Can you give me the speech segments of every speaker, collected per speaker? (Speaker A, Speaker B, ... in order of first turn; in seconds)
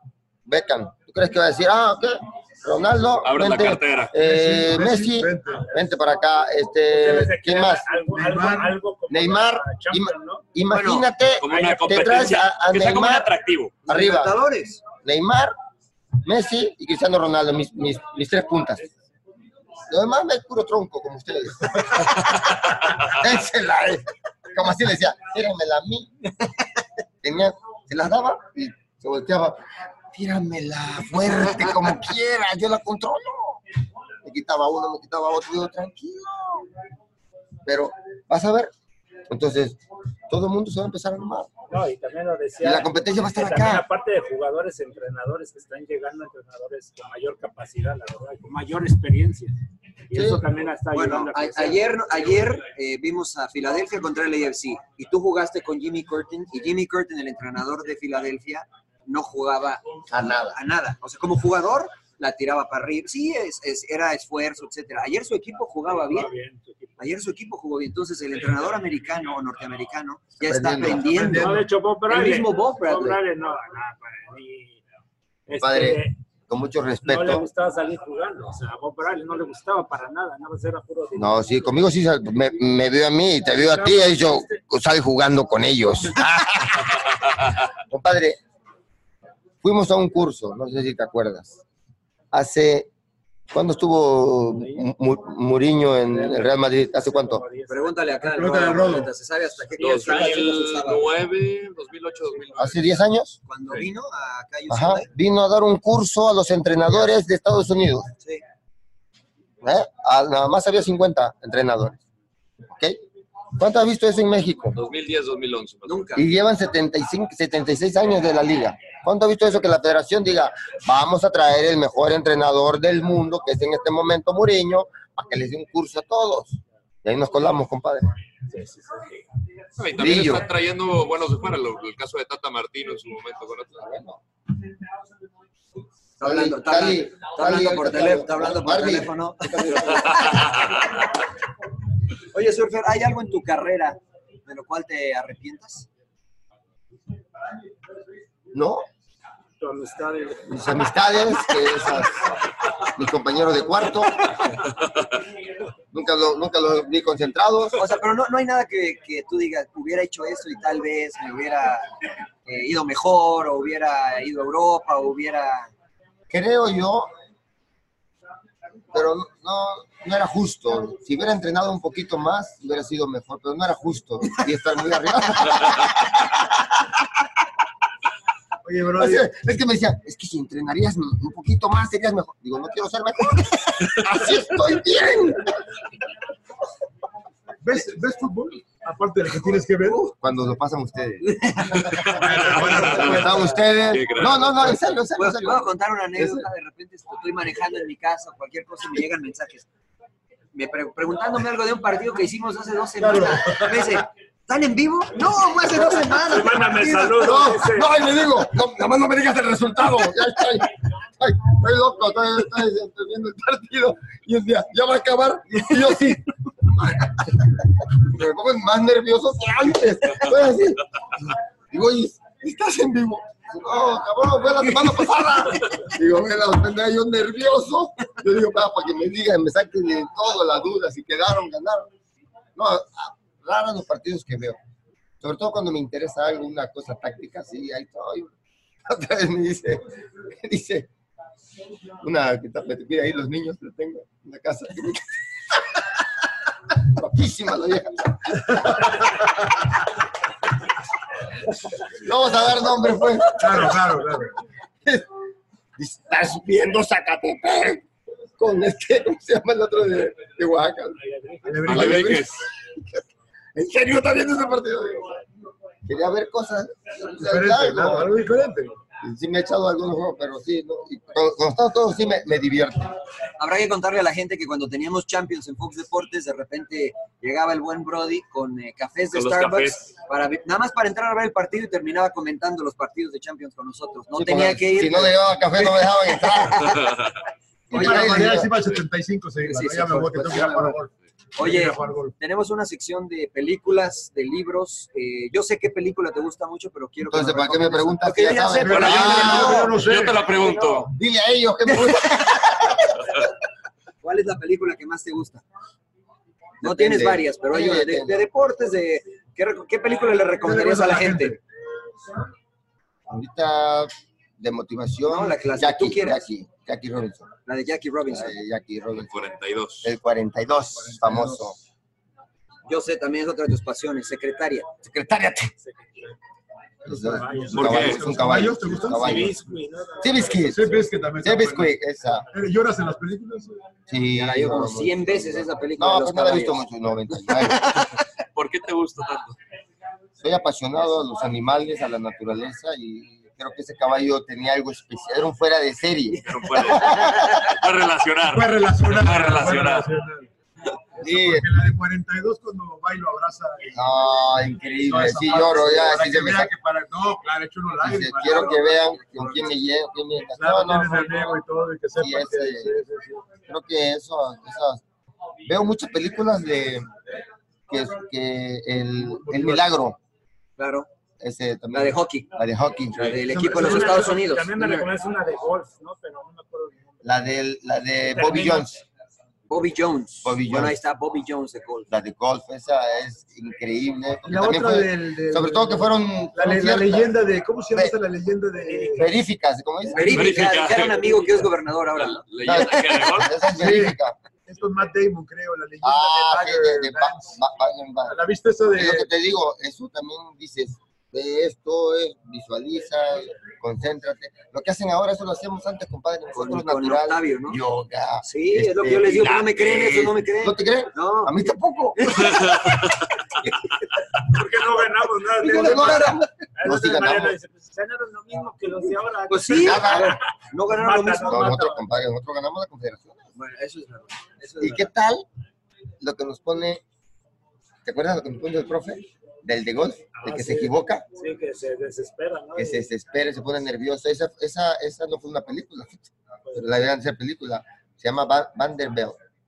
Speaker A: 0.5-7.9, 9.1-13.3, 13.9-14.4, 15.0-15.5, 16.2-18.9, 19.9-26.1, 27.2-33.6, 34.2-36.7, 37.7-38.7, 39.3-41.5, 42.6-43.9, 50.1-50.5, 60.1-60.6, 70.4-71.3, 75.6-77.5, 81.2-87.0, 87.9-88.4, 89.6-91.6, 92.3-92.9, 93.5-97.4, 102.6-103.4, 104.7-108.1, 109.6-112.0, 112.7-113.0, 113.6-114.8, 116.2-128.1, 129.9-130.5, 133.8-134.2, 136.2-140.3, 148.5-148.8, 150.5-154.5, 155.9-157.8, 166.3-167.1, 168.9-177.0, 179.0-185.8, 189.9-191.8, 192.6-196.5, 207.1-231.9, 232.6-234.6, 235.2-238.3, 238.9-240.9, 242.0-245.8, 246.7-249.1, 251.8-254.0, 255.8-257.9, 258.4-261.0, 261.7-262.4, 263.6-265.2, 265.9-268.2, 269.0-273.0, 284.1-286.8, 287.7-288.5, 297.1-299.8, 300.8-302.8, 306.6-308.3, 313.1-317.3, 318.1-321.6, 324.8-325.5, 326.9-329.4, 330.0-332.3, 333.9-337.9, 340.2-347.5, 351.0-351.5, 353.7-356.5, 357.8-361.4, 362.0-362.8, 363.5-364.8, 365.4-366.9, 367.7-370.0, 371.2-373.2, 377.0-378.8, 380.2-380.8, 381.9-387.2, 387.7-388.0, 388.9-390.4, 392.4-394.2, 395.8-412.8, 415.4-417.4, 419.5-420.2, 421.2-423.3, 424.6-425.3, 426.0-426.8, 427.9-431.1, 432.6-439.2
Speaker B: 3.2-4.1, 11.4-13.8, 99.8-102.9, 114.7-116.1, 129.8-133.9, 192.0-193.2, 193.9-194.6, 261.7-262.4, 279.1-279.9, 286.6-287.1, 298.7-300.9, 319.1-319.9, 327.6-328.1, 338.4-339.4, 346.2-349.9, 390.1-393.5
Speaker C: 4.2-5.7, 8.1-8.8, 71.0-71.7, 98.2-99.1, 178.6-179.3, 187.6-190.0, 192.1-193.6, 203.0-204.1, 253.4-254.3, 261.4-262.3, 267.2-268.7, 287.7-292.2, 298.6-300.3, 310.4-311.4, 320.9-321.5, 326.9-329.4, 330.5-331.7, 332.3-333.6, 348.2-350.3, 351.0-353.9, 354.8-358.7, 360.3-363.2, 369.0-369.8, 373.3-374.1, 384.2-389.1, 389.9-390.7, 393.5-397.4, 398.1-399.1
Speaker D: 6.9-10.4, 41.7-49.5, 50.1-52.4, 66.1-67.0, 71.2-74.8, 75.5-76.2, 77.0-81.8, 83.5-84.6, 96.1-98.0, 99.8-100.7, 128.5-129.1, 149.6-150.6, 206.2-207.9, 261.0-261.8, 325.6-326.1, 327.0-328.0, 328.7-330.8, 373.3-377.0, 378.1-378.7, 388.7-389.0, 414.3-421.9, 430.1-432.9
Speaker E: 10.7-11.1, 13.9-14.8, 50.9-59.8, 60.5-66.3, 67.0-73.2, 97.7-101.1, 103.5-105.1, 115.9-116.3, 136.2-140.8, 142.3-145.9, 157.8-161.9, 162.5-165.7, 191.3-192.8, 195.2-199.7, 200.5-207.4, 273.4-285.2, 287.7-288.5, 289.4-290.7, 291.4-300.9, 301.9-302.3, 304.0-305.4, 306.6-311.4, 315.1-316.2, 317.5-318.4, 322.7-324.7, 334.1-336.6, 358.2-359.5, 370.6-370.9, 371.7-372.3, 372.9-374.9, 379.5-381.9, 389.9-392.2, 406.3-407.6, 408.2-412.7, 419.3-421.5, 423.4-424.9